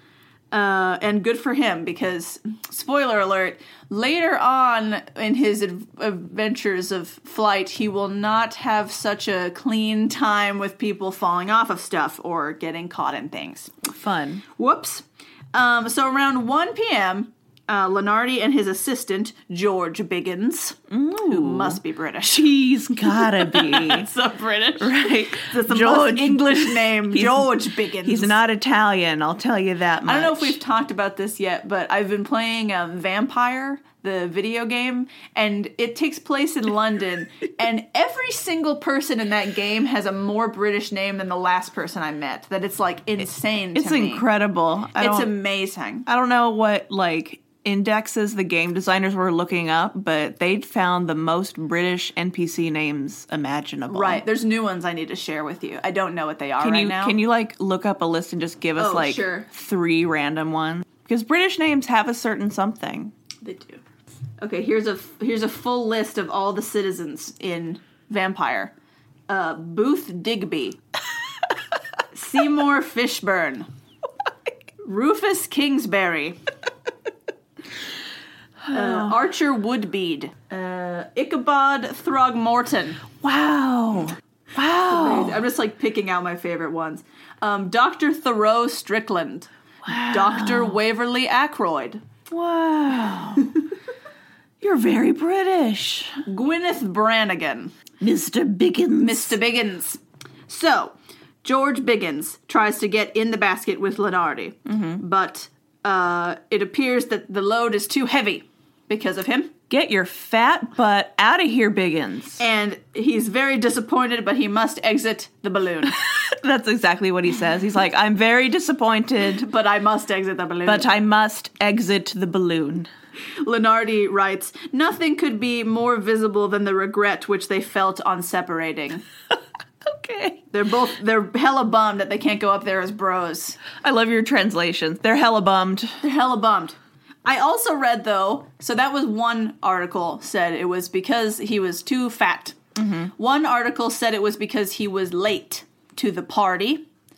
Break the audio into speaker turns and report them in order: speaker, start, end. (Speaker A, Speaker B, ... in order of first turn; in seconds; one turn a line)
Speaker A: 0.5-13.7
Speaker B: 13.9-14.4
Speaker A: 14.6-28.4
Speaker B: 20.9-24.1
Speaker B: 24.8-30.6
Speaker A: 30.1-44.2
Speaker B: 43.7-45.3
Speaker A: 44.9-46.0
Speaker B: 46.0-54.2
Speaker A: 53.9-57.2
Speaker B: 56.6-63.1
Speaker A: 58.8-59.5
Speaker A: 63.4-63.8
Speaker A: 64.4-68.7
Speaker A: 69.3-70.8
Speaker A: 72.1-73.7
Speaker A: 74.8-76.4
Speaker B: 78.6-79.1
Speaker A: 78.7-83.0
Speaker B: 83.2-85.4
Speaker A: 84.9-92.0
Speaker B: 89.8-90.8
Speaker B: 92.3-93.5
Speaker B: 94.6-96.2
Speaker A: 96.2-97.7
Speaker B: 98.0-99.3
Speaker A: 99.0-109.5
Speaker B: 104.7-105.0
Speaker B: 109.7-112.4
Speaker A: 112.4-116.0
Speaker B: 116.0-119.5
Speaker A: 119.4-120.9
Speaker B: 120.7-122.9
Speaker A: 123.4-129.0
Speaker B: 129.8-130.4
Speaker A: 130.5-133.6
Speaker B: 133.7-136.0
Speaker A: 136.0-142.6
Speaker B: 142.8-143.1
Speaker A: 143.2-146.8